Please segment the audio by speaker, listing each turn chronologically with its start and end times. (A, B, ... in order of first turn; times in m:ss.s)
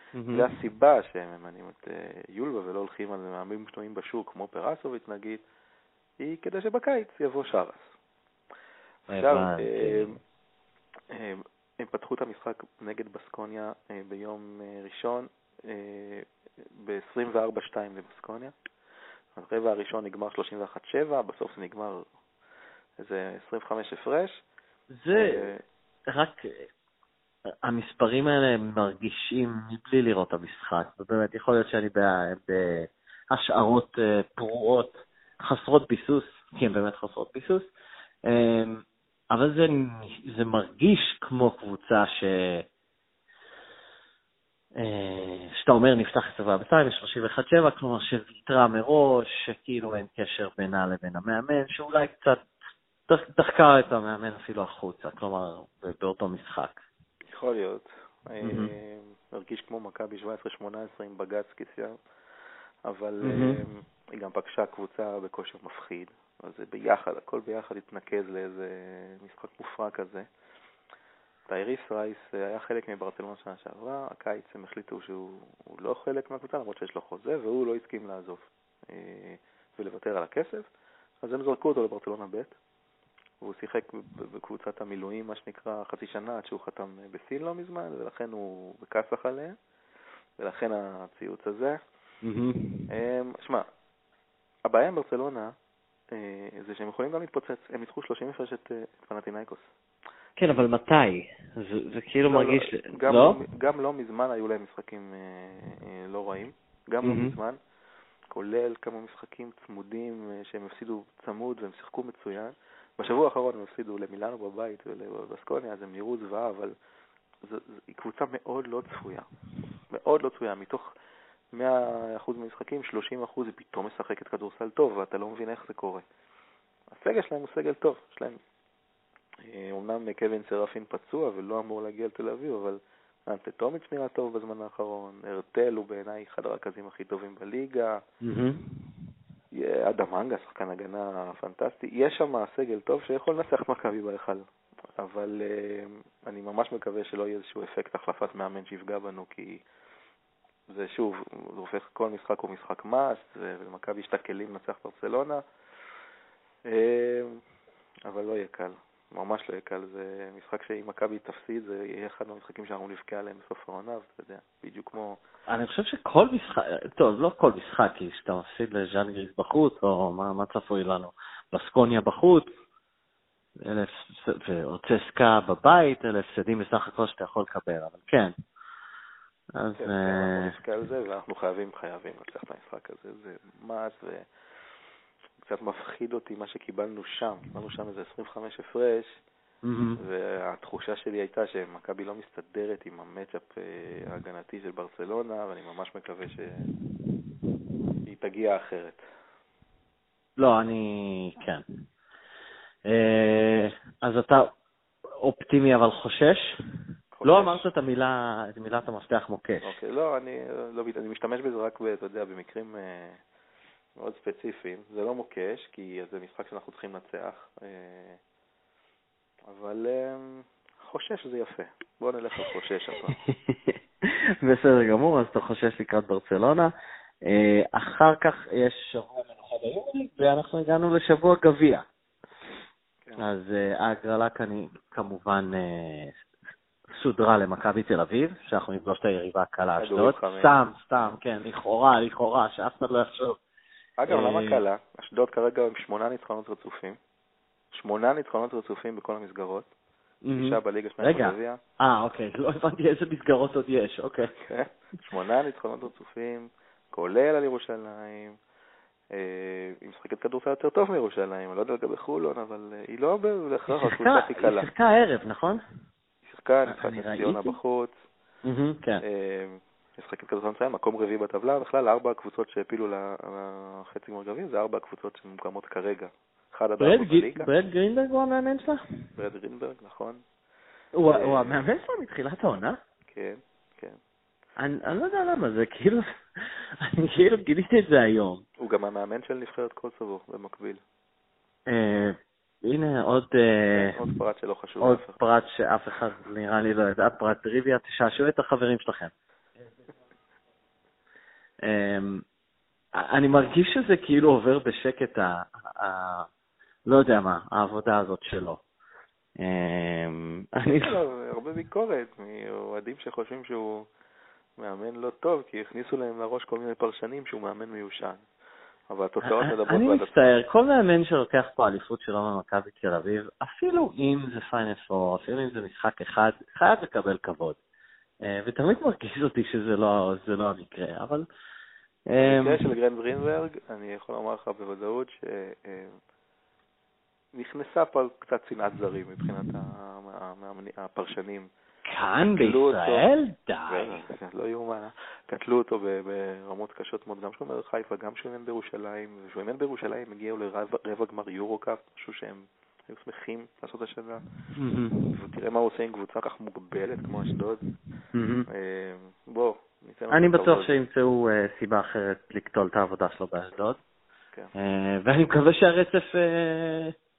0:00.1-0:00.5 A
0:00.3-0:05.4 B
0:06.2-0:07.9 B
0:09.1-0:10.1 A
0:09.1-0:10.2 B
0:11.1-0:18.5 B
0:19.4-0:22.1 B
0:23.0-0:24.4 B
0:24.9-0:25.5 A
0:25.1-0:25.6 B
0:26.1-0:26.7 A
0:27.6-0:37.7 A
0:38.3-0:42.7 A
0:44.8-0:52.4 A
0:53.1-0:56.8 A
0:57.3-1:02.0 B
0:58.4-0:58.7 A
1:02.9-1:10.3 B
1:03.2-1:03.6 A
1:11.5-1:20.7 B
1:21.2-1:22.6 B
1:23.4-1:29.6 B
1:30.4-1:31.8 B
1:32.2-1:32.9 A
1:32.9-1:33.7 B
1:34.7-1:35.5 B
1:36.1-1:39.7 B
1:40.4-1:43.4 A
1:42.3-1:47.6 B
1:47.0-1:47.4 A
1:48.3-1:56.7 B
1:57.4-1:59.3 B
1:59.9-2:00.9 B
2:01.5-2:06.0 B
2:06.9-2:08.4 B
2:09.4-2:18.0 B
2:18.2-2:18.7 A
2:19.6-2:24.5 B
2:25.0-2:29.6 B
2:30.7-2:35.4 B
2:36.7-2:37.4 B
2:38.1-2:45.2 B
2:45.5-2:52.5 A
2:53.6-2:58.3 A
2:59.6-3:00.6 A
2:59.8-3:04.3 B
3:05.4-3:09.1 B
3:09.6-3:10.0 A
3:10.0-3:16.7 B
3:18.1-3:19.0 B
3:20.4-3:21.6 A
3:22.9-3:24.5 A
3:25.2-3:26.5 A
3:27.1-3:27.7 B
3:27.2-3:29.8 A
3:29.6-3:33.2 B
3:34.0-3:38.2 B
3:39.5-3:43.2 B
3:43.2-3:46.7 A
3:47.2-3:51.8 A
3:53.2-3:56.2 A
3:57.0-4:03.4 A
3:59.8-4:00.6 B
4:04.0-4:07.0 B
4:04.1-4:04.6 A
4:07.7-4:09.7 B
4:10.2-4:14.4 A
4:10.3-4:11.6 B
4:14.4-4:18.4 B
4:19.1-4:24.7 B
4:23.7-4:25.6 A
4:26.2-4:28.0 B
4:26.7-4:27.5 A
4:28.4-4:29.0 A
4:29.0-4:37.5 B
4:36.8-4:38.8 A
4:39.2-4:40.2 B
4:40.9-4:42.8 A
4:41.1-4:41.6 B
4:43.1-4:44.0 B
4:44.6-4:48.4 A
4:48.6-4:50.8 B
4:51.7-4:54.0 A
4:53.7-4:55.2 B
4:54.8-4:59.1 A
5:01.6-5:02.2 A
5:02.9-5:06.3 A
5:06.9-5:08.6 A
5:09.4-5:11.0 A
5:10.8-5:13.9 B
5:14.6-5:18.2 B
5:18.9-5:20.3 B
5:19.3-5:27.6 A
5:28.2-5:31.3 A
5:32.1-5:32.7 A
5:32.2-5:36.0 B
5:37.3-5:41.5 B
5:41.9-5:44.0 A
5:42.3-5:43.1 B
5:43.7-5:54.2 B
5:54.6-5:55.1 A
5:55.1-5:57.6 B
5:58.1-5:58.5 A
5:58.5-6:00.8 B
6:00.1-6:03.8 A
6:04.5-6:07.0 A